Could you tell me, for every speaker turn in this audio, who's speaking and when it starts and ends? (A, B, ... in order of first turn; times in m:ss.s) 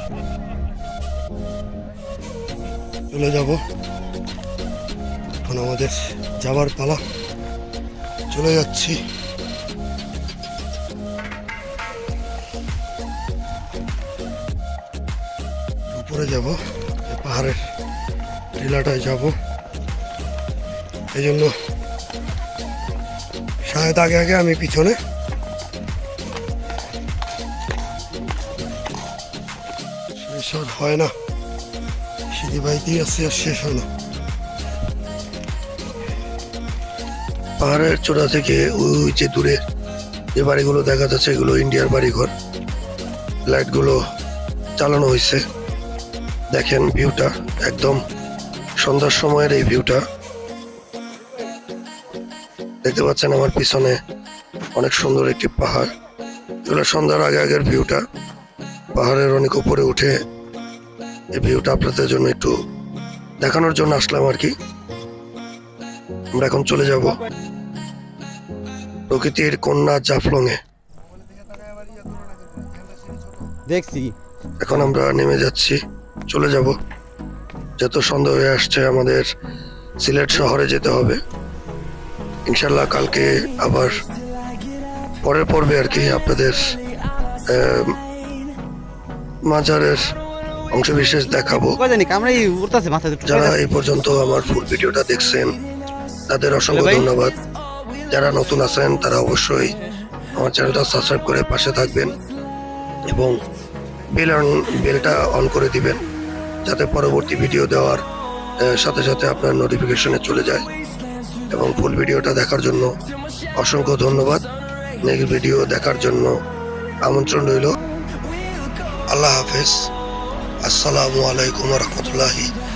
0:03.1-0:03.6 A
0:05.4-0:07.0 A
0:08.3-0:09.0 A
0:15.9-0:17.6 A
0:18.6-0:19.4 A
0:21.1-0:21.6 A
0:23.6-0:25.0 A
0:30.1-0:31.1 A
0:32.3-0:33.9 A
0:37.6-0:39.6 B
0:40.4-0:42.3 B
0:43.5-0:44.0 B
0:44.8-0:45.4 B
0:46.5-0:48.0 B
0:48.8-0:50.0 B
0:52.8-0:54.0 B
0:54.8-0:55.9 B
0:56.6-0:58.0 B
0:58.9-1:00.2 B
1:01.3-1:02.5 B
1:03.4-1:04.5 B
1:06.3-1:07.2 B
1:09.1-1:10.6 B
1:11.0-1:13.5 A
1:13.7-1:14.2 C
1:14.6-1:16.8 B
1:14.7-1:15.0 C
1:17.8-1:19.3 B
1:20.0-1:21.2 B
1:22.5-1:24.0 B
1:25.2-1:26.6 B
1:27.5-1:28.0 B
1:29.5-1:30.1 B
1:30.7-1:31.8 B
1:31.6-1:33.6 C
1:33.2-1:35.6 B
1:36.3-1:37.4 B
1:36.7-1:37.1 C
1:38.1-1:39.8 B
1:40.4-1:42.2 B
1:43.1-1:43.4 B
1:44.1-1:46.0 B
1:46.6-1:48.0 B
1:48.6-1:50.7 B
1:51.5-1:52.9 B
1:53.6-1:54.5 B
1:55.0-1:56.3 B
1:57.0-1:57.8 B
1:59.1-1:59.9 B
2:00.6-2:02.5 B